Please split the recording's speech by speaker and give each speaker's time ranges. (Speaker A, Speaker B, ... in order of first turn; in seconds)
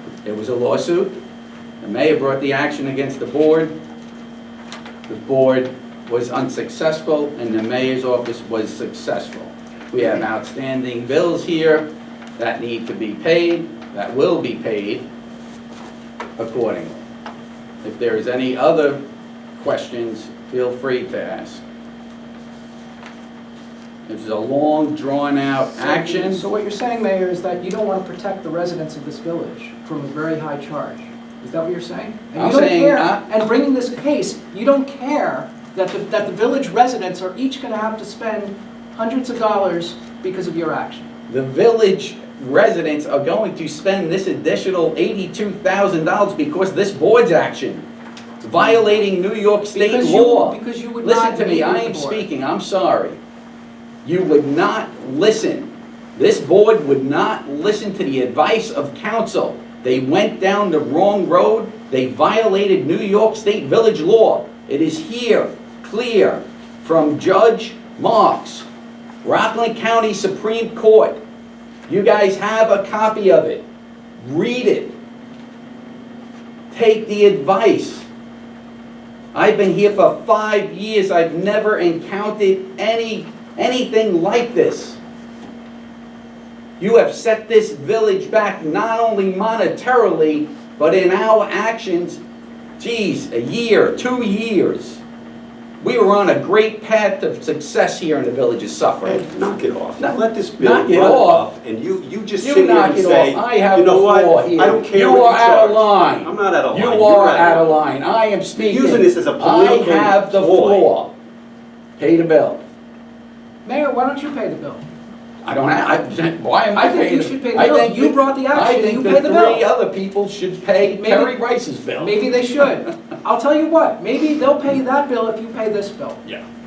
Speaker A: 0.2-1.2, 1.8-3.7, 5.1-11.8, 12.4-15.0, 16.4-17.0, 17.8-19.0, 19.6-21.6, 24.1-26.4, 32.3-33.2, 41.3-47.8, 48.4-53.2, 54.0-68.7, 69.2-71.2, 71.9-73.6, 74.2-74.9, 76.7-78.1, 79.3-85.0, 86.8-92.2, 92.8-95.0, 95.8-99.3, 100.0-101.5, 102.4-111.1, 112.0-112.6, 115.4-122.2
Speaker B: 25.7-41.1, 49.7-52.3, 113.6-114.8, 116.7-119.7, 120.8-121.4, 122.0-126.2
Speaker C: 99.0-107.7, 108.6-110.9